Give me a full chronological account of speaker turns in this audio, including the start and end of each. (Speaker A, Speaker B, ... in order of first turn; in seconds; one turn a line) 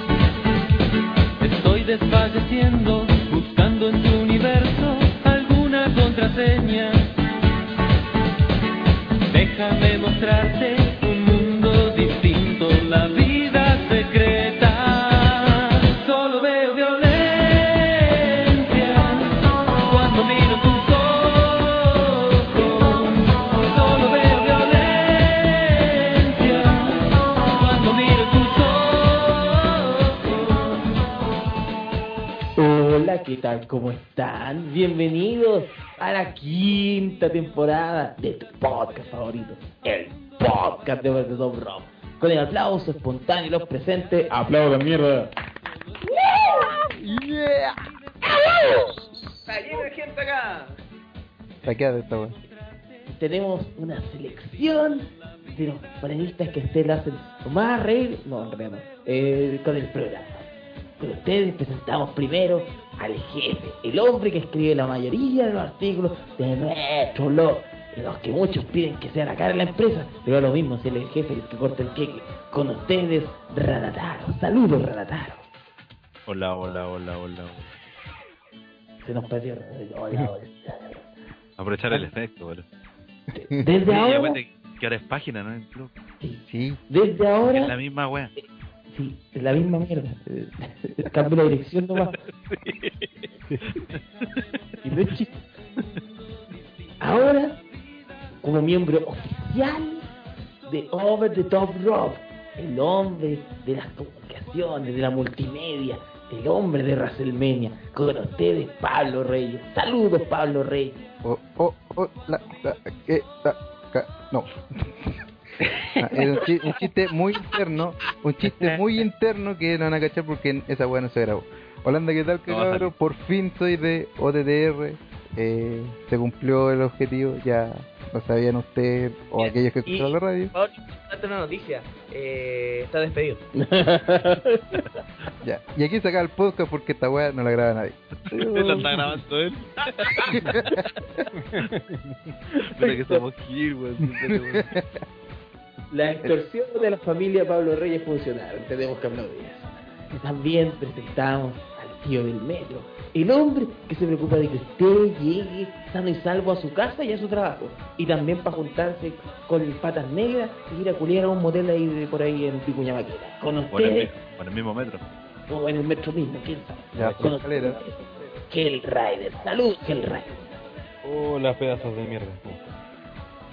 Speaker A: 1.4-7.1
Speaker A: 9.3-30.7
Speaker B: 32.6-45.3
Speaker C: 47.0-47.8
Speaker B: 49.5-49.9
Speaker D: 49.5-50.4
Speaker C: 51.6-52.4
Speaker B: 53.1-60.5
Speaker B: 61.0-75.4
Speaker E: 76.3-77.7
Speaker B: 79.0-81.0
Speaker E: 81.6-82.7
Speaker B: 83.3-84.4
Speaker E: 83.9-86.0
Speaker B: 86.2-87.8
Speaker C: 86.5-86.8
Speaker E: 87.5-88.3
Speaker B: 88.4-92.2
Speaker E: 92.1-93.1
Speaker B: 94.8-95.4
Speaker B: 97.0-97.6
Speaker B: 98.4-100.1
Speaker B: 100.7-111.0
Speaker C: 111.2-115.1
Speaker F: 115.7-116.1
Speaker C: 116.0-130.5
Speaker F: 118.5-118.8
Speaker E: 122.5-122.9
Speaker D: 129.4-133.4
Speaker B: 133.6-134.8
Speaker C: 135.4-139.1
Speaker E: 138.4-140.8
Speaker C: 140.3-141.3
Speaker F: 141.5-142.2
Speaker E: 142.8-144.7
Speaker B: 142.9-143.2
Speaker C: 144.2-144.9
Speaker B: 145.9-164.1
Speaker E: 163.7-165.0
Speaker B: 165.5-170.4
Speaker C: 166.9-167.8
Speaker F: 171.0-172.7